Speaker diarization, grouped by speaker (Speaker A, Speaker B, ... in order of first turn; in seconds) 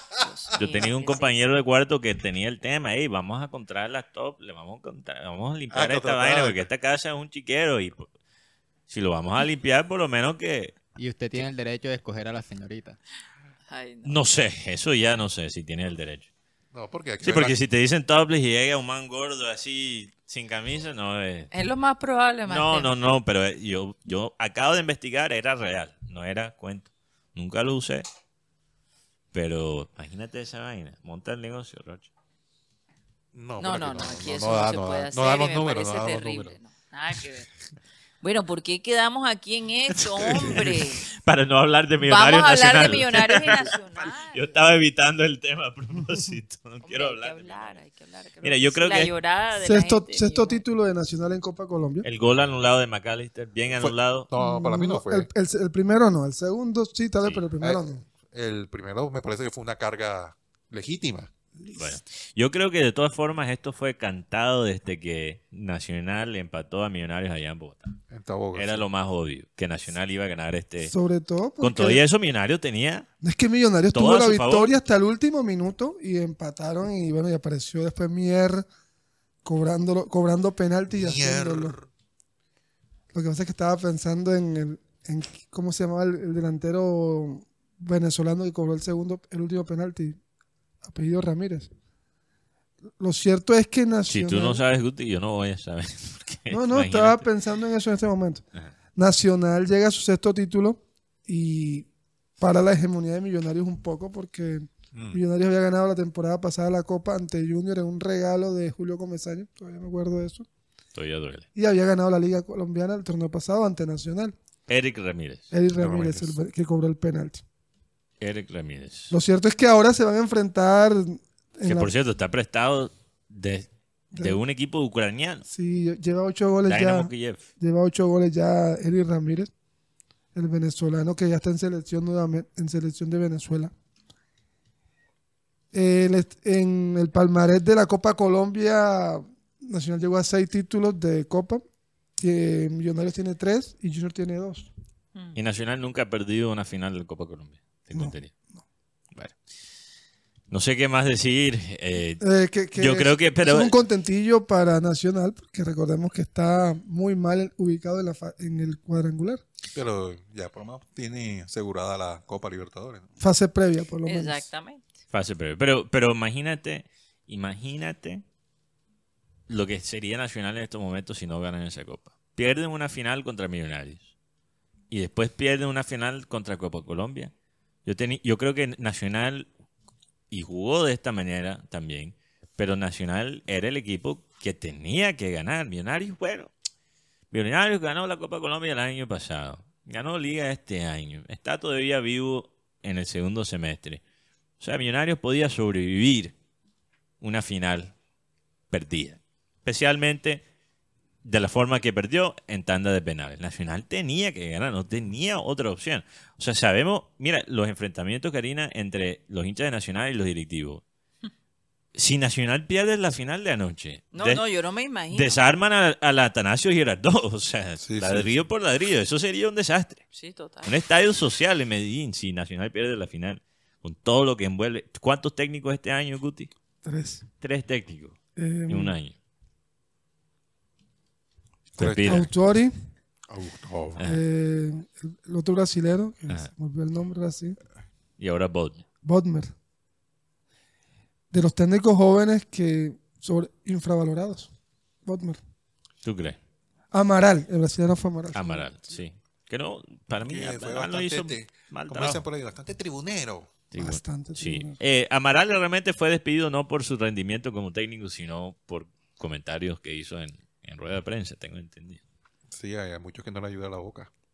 Speaker A: 0.2-1.3, 13.7-14.2, 21.5-22.9, 33.6-37.5, 38.2-41.0, 42.0-44.5, 46.8-50.6, 164.0-164.8, 214.1-215.4, 220.1-220.7
Speaker B: 0.5-8.1, 8.9-10.7, 14.1-16.3, 17.2-21.5, 22.5-28.0, 29.3-32.1, 40.6-43.5, 44.0-47.8, 48.4-49.1, 52.0-54.3, 61.8-67.9, 68.5-70.9, 71.6-73.1, 73.9-74.7, 94.1-97.3, 110.9-111.5, 114.7-115.5, 118.2-119.1, 121.6-125.4, 126.6-127.4, 145.3-148.3, 149.1-149.4, 150.5-153.7, 165.1-168.2, 169.5-174.1, 174.9-177.3, 177.8-179.5, 180.3-186.5, 187.3-194.0, 194.6-196.3, 197.2-197.9, 198.7-200.4, 201.2-210.8, 211.9-214.4, 215.1-220.0, 220.6-226.5, 227.4-228.2, 228.7-229.1, 231.8-232.3, 238.2-238.8, 246.0-246.4, 248.3-252.2, 253.7-262.0
Speaker C: 5.7-6.7, 16.7-17.6, 33.3-36.6, 40.1-40.7, 53.7-55.3, 57.6-61.3, 68.1-68.9, 80.9-81.9, 104.9-105.2, 115.8-116.4, 159.7-163.1, 217.8-218.3, 231.8-232.3, 233.3-234.0, 250.2-253.5, 262.5-264.1
Speaker D: 11.0-13.0
Speaker E: 49.5-52.0, 54.4-58.0, 70.8-72.0, 73.2-78.7, 79.4-81.7, 83.1-90.2, 90.8-91.7, 93.0-94.6, 96.5-101.9, 102.4-110.4, 111.5-114.3, 115.5-117.4, 119.1-121.9, 124.1-124.4, 125.5-129.5, 130.3-133.7, 135.7-141.6, 142.2-144.7, 147.9-148.6, 152.2-159.4, 163.2-164.5, 226.8-227.2, 228.4-228.9, 232.1-232.7, 234.0-237.6, 239.0-239.5, 241.3-244.5, 245.0-245.4, 246.9-248.6, 253.8-254.8